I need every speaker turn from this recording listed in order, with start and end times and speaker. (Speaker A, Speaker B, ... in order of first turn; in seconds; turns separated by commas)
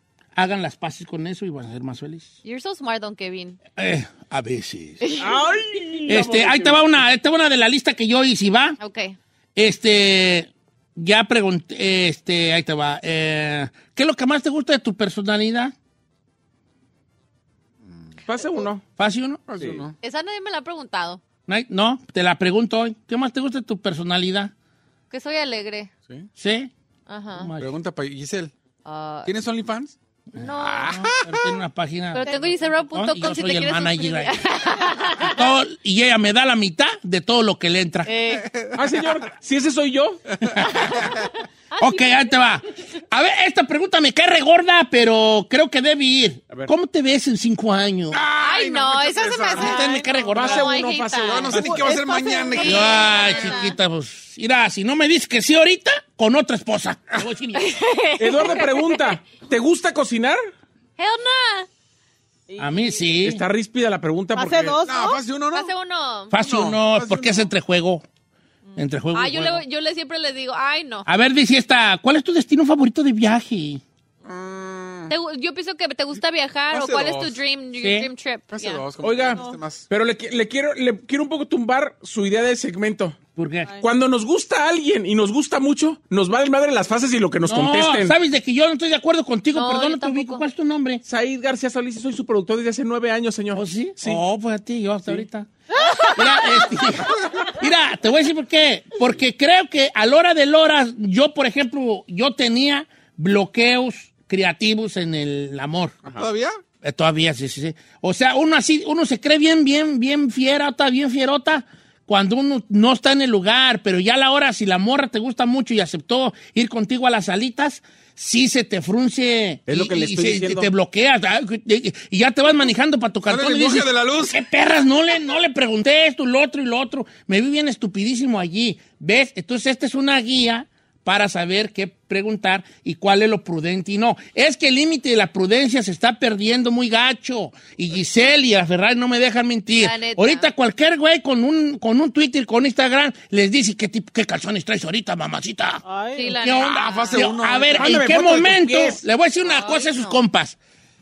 Speaker A: 0.3-2.3, Speaker B: 2.4-3.6, Speaker A: 3.8-5.2, Speaker B: 5.0-5.4, Speaker C: 5.2-7.0, Speaker A: 6.1-8.8, Speaker B: 8.8-9.2, Speaker A: 9.6-15.7, Speaker C: 18.3-18.8, Speaker A: 19.0-19.4, Speaker D: 19.5-19.9, Speaker C: 19.6-19.9, Speaker B: 20.0-21.2, Speaker A: 21.5-24.5, Speaker B: 25.1-25.9, Speaker A: 26.4-26.7, Speaker B: 27.1-27.5, Speaker A: 27.4-27.7, Speaker D: 27.6-28.5, Speaker B: 28.9-29.3, Speaker D: 29.2-31.4, Speaker B: 30.4-31.1, Speaker A: 30.4-34.4, Speaker B: 32.1-35.4, Speaker A: 35.2-38.1, Speaker B: 38.0-38.6, Speaker D: 38.3-38.9, Speaker C: 38.7-40.4, Speaker A: 40.5-41.1, Speaker B: 41.8-42.3, Speaker A: 41.8-48.2, Speaker D: 48.1-49.9, Speaker B: 48.4-53.7, Speaker A: 49.5-50.7, Speaker E: 49.8-50.5, Speaker C: 50.3-51.8, Speaker D: 51.2-53.5, Speaker E: 52.1-53.7, Speaker A: 52.6-57.8, Speaker B: 57.5-59.3, Speaker C: 58.2-60.4, Speaker B: 61.0-61.7, Speaker E: 62.5-63.1, Speaker A: 62.6-63.4, Speaker C: 63.2-64.8, Speaker E: 64.3-65.2, Speaker D: 64.8-65.7, Speaker B: 65.1-66.3, Speaker A: 66.3-68.0, Speaker D: 66.3-67.5, Speaker A: 68.8-69.6, Speaker B: 69.1-71.1, Speaker A: 71.1-73.8, Speaker D: 74.2-75.2, Speaker B: 75.1-78.9, Speaker D: 76.7-77.4, Speaker A: 77.8-78.1, Speaker D: 78.5-79.9, Speaker C: 79.0-83.2, Speaker E: 79.3-79.6, Speaker A: 83.4-83.8, Speaker C: 83.8-88.2, Speaker A: 87.4-91.0, Speaker B: 89.5-90.5, Speaker C: 91.0-94.2, Speaker A: 93.5-95.5, Speaker B: 96.0-96.4, Speaker A: 96.2-106.0, Speaker D: 106.1-106.6, Speaker A: 106.8-145.8, Speaker C: 119.7-120.7, Speaker D: 123.3-124.4, Speaker B: 139.8-140.5, Speaker E: 145.8-146.4, Speaker B: 146.2-147.2, Speaker A: 146.4-150.6, Speaker D: 146.6-148.1, Speaker C: 147.8-149.0, Speaker B: 149.4-150.2